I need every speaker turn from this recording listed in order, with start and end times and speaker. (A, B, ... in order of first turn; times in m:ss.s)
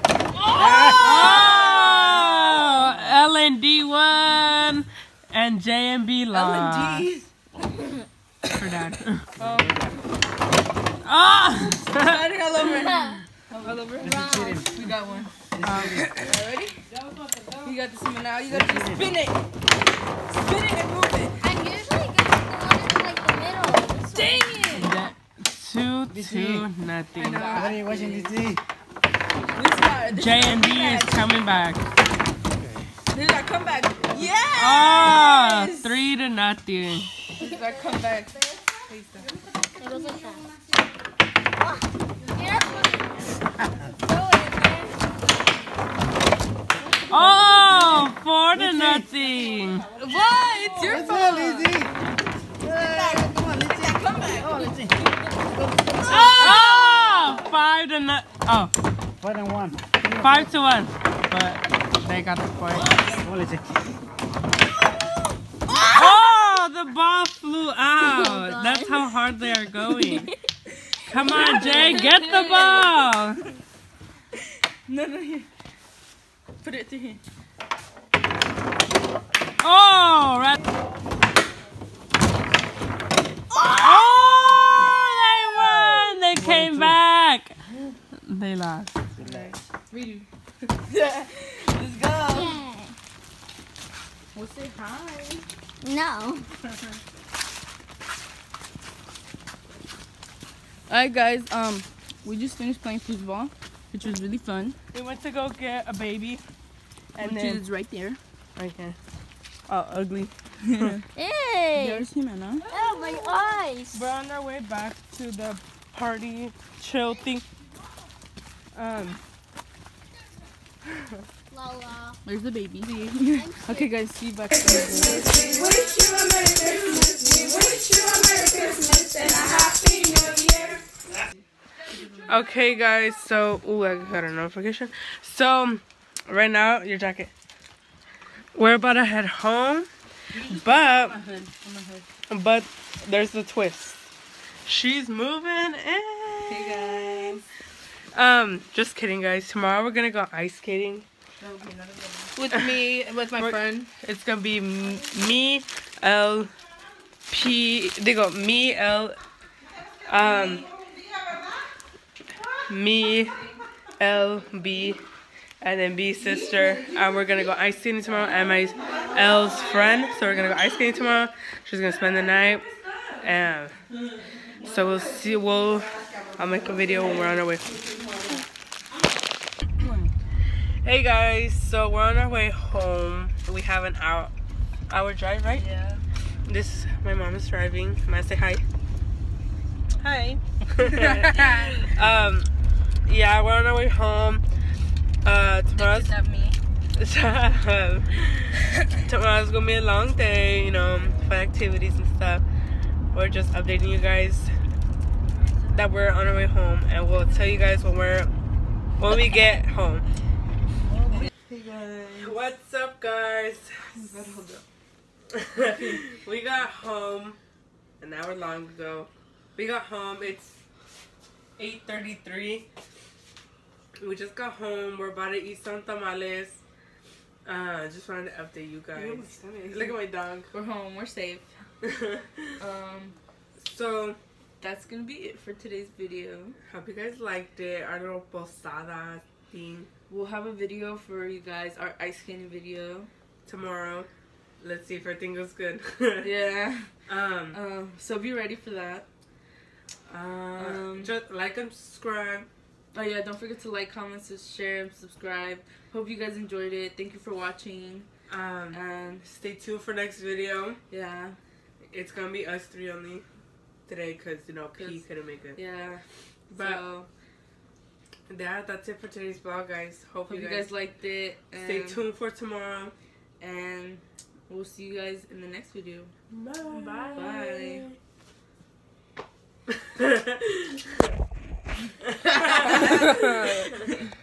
0:00.6-0:07.1 A
0:00.6-0:02.8 B
0:06.3-0:07.3 C
0:08.5-0:09.3 A
0:09.4-0:10.0 C
0:11.0-0:12.3 A
0:12.0-0:15.3 C
0:12.8-0:13.2 B
0:14.0-0:14.7 B
0:14.3-0:14.7 D
0:15.6-0:16.1 A
0:15.8-0:16.2 D
0:16.2-0:16.8 C
0:17.6-0:19.4 C
0:20.4-0:21.4 C
0:21.4-0:24.7 B
0:24.2-0:24.9 C
0:24.7-0:28.2 A
0:27.2-0:28.5 C
0:27.2-0:28.6 D
0:29.5-0:31.4 C
0:30.1-0:31.9 A
0:33.1-0:35.9 C
0:34.6-0:37.1 A
0:37.4-0:39.3 C
0:39.8-0:40.5 B
0:41.6-0:43.3 B
0:43.9-0:45.1 B
0:47.1-0:48.0 B
0:47.1-0:49.9 A
0:50.0-0:51.9 C
0:50.8-0:51.9 D
0:50.9-0:51.2 B
0:52.7-0:55.0 D
0:52.9-0:54.8 B
0:53.9-0:54.7 C
0:56.0-0:57.5 B
0:56.0-0:58.7 A
0:59.2-0:59.8 D
1:00.1-1:03.0 A
1:03.0-1:03.2 B
1:03.3-1:03.6 D
1:05.7-1:06.3 B
1:05.9-1:10.3 A
1:08.0-1:10.3 B
1:11.1-1:13.4 A
1:11.2-1:13.0 C
1:11.4-1:11.8 B
1:14.9-1:15.5 C
1:16.6-1:17.2 C
1:19.6-1:20.6 A
1:23.8-1:27.6 A
1:28.2-1:28.9 A
1:29.2-1:32.6 C
1:29.2-1:29.5 D
1:32.2-1:33.0 B
1:34.3-1:35.5 C
1:35.8-1:36.5 B
1:40.9-1:44.8 C
1:44.9-1:46.4 A
1:47.2-1:47.6 A
1:47.2-1:48.2 C
1:48.6-1:49.0 A
1:49.7-1:50.3 A
1:50.6-1:51.0 C
1:51.2-1:52.1 B
1:51.8-1:52.6 C
1:52.7-1:54.1 B
1:53.9-1:57.5 A
1:58.7-1:59.2 A
2:01.5-2:02.2 B
2:02.2-2:05.7 C
2:03.4-2:03.9 B
2:05.6-2:06.1 B
2:07.2-2:09.6 D
2:09.9-2:10.8 C
2:12.2-2:17.3 A
2:18.6-2:19.9 A
2:20.4-2:22.0 C
2:20.5-2:21.2 A
2:22.3-2:24.1 A
2:24.6-2:27.4 A
2:26.5-2:27.4 C
2:28.1-2:31.1 A
2:31.4-2:33.5 C
2:32.4-2:33.4 D
2:33.4-2:36.5 A
2:37.3-2:39.2 A
2:40.1-2:40.7 A
2:42.7-2:43.4 A
2:44.0-2:45.0 A
2:45.6-2:52.7 A
2:53.2-2:53.8 A
2:54.6-2:57.7 A
3:00.8-3:04.3 A
3:04.9-3:05.6 A
3:05.5-3:06.0 C
3:06.4-3:08.6 A
3:10.0-3:12.5 A
3:11.0-3:11.9 C
3:13.1-3:14.4 A
3:15.2-3:16.1 A
3:15.8-3:16.6 C
3:17.0-3:22.4 A
3:23.1-3:24.6 A
3:25.7-3:28.3 A
3:29.0-3:30.1 A
3:31.1-3:32.4 C
3:32.2-3:34.0 A
3:33.9-3:34.6 C
3:35.3-3:37.4 A
3:38.0-3:40.6 A
3:41.6-3:42.7 A
3:44.0-3:46.6 A
3:47.4-3:50.5 A
3:49.0-3:49.9 C
3:50.5-3:51.5 C
3:51.8-3:52.5 A
3:52.6-3:53.2 C
3:53.6-3:54.2 A
3:54.6-3:56.6 C
3:56.6-3:59.9 A
4:00.1-4:03.1 C
4:03.4-4:04.1 A
4:04.6-4:06.4 A
4:06.2-4:07.0 C
4:07.1-4:07.6 A
4:07.5-4:09.1 C
4:10.1-4:12.5 A
4:10.6-4:11.1 C
4:12.9-4:18.1 C
4:18.3-4:20.8 A
4:18.7-4:19.2 C
4:20.9-4:21.4 C
4:21.9-4:23.3 A
4:23.9-4:25.6 A
4:24.8-4:25.0 C
4:25.6-4:27.1 C
4:26.5-4:26.8 A
4:28.3-4:30.7 A
4:30.3-4:32.0 C
4:31.6-4:33.0 A
4:33.4-4:36.1 C
4:36.3-4:38.0 A
4:36.7-4:37.9 C
4:39.7-4:41.1 A
4:42.0-4:43.8 A
4:42.3-4:43.7 C